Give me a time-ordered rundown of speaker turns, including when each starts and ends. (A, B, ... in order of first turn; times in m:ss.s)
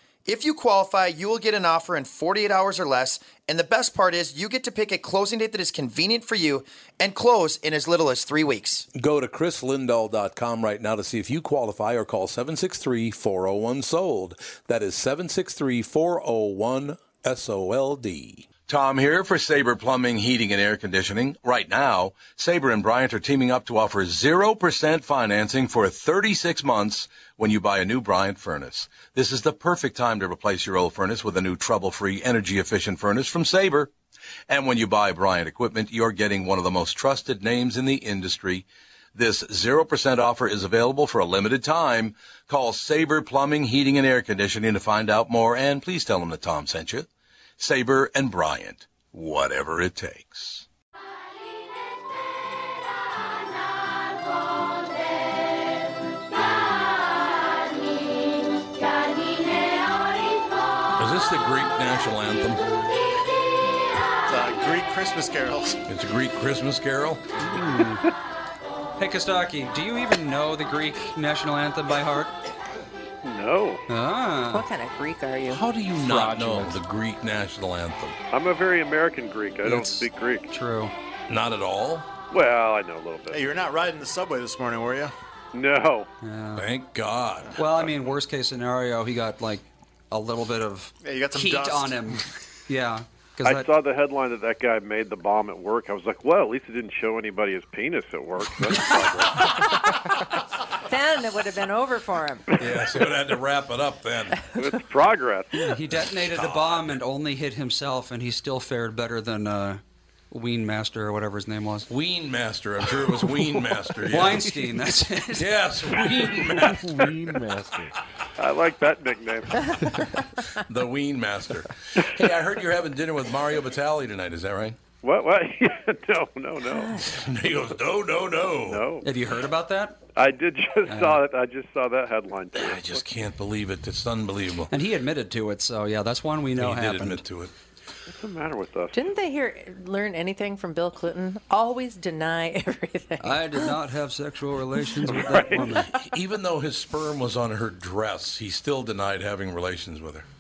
0:00.2-0:08.9 A
0:09.0-0:33.9 B
0:34.5-0:47.1 B
0:47.6-0:50.7 B
1:01.0-1:02.6 B
1:04.2-1:05.8 C
1:05.9-1:07.2 B
1:07.5-1:08.0 D
1:09.0-1:12.3 D
1:13.2-1:13.8 E
1:13.9-1:14.7 D
1:14.5-1:15.6 F
1:15.5-1:18.2 B
1:16.0-1:16.8 G
1:18.3-1:20.5 E
1:19.6-1:20.9 D
1:21.3-1:22.1 B
1:22.3-1:23.4 E
1:23.3-1:25.1 C
1:25.5-1:26.1 E
1:26.2-1:26.7 D
1:26.6-1:27.9 B
1:27.6-1:33.7 D
1:31.0-1:32.1 C
1:33.4-1:39.6 E
1:40.9-1:42.5 F
1:42.6-1:44.4 B
1:44.6-1:45.6 E
1:45.6-1:51.9 D
1:46.2-1:46.9 B
1:51.9-1:54.5 B
1:54.1-1:55.5 D
1:55.4-1:57.0 B
1:56.6-1:57.9 G
1:58.4-1:59.5 E
2:00.7-2:04.8 B
2:05.0-2:07.0 E
2:06.7-2:07.1 F
2:07.1-2:08.9 B
2:08.7-2:09.1 E
2:09.0-2:10.0 D
2:10.2-2:13.0 E
2:10.9-2:11.2 D
2:12.5-2:14.7 B
2:14.7-2:17.2 D
2:16.6-2:17.5 B
2:18.1-2:19.0 E
2:18.9-2:23.7 F
2:23.2-2:25.9 D
2:25.1-2:25.6 E
2:25.9-2:30.3 B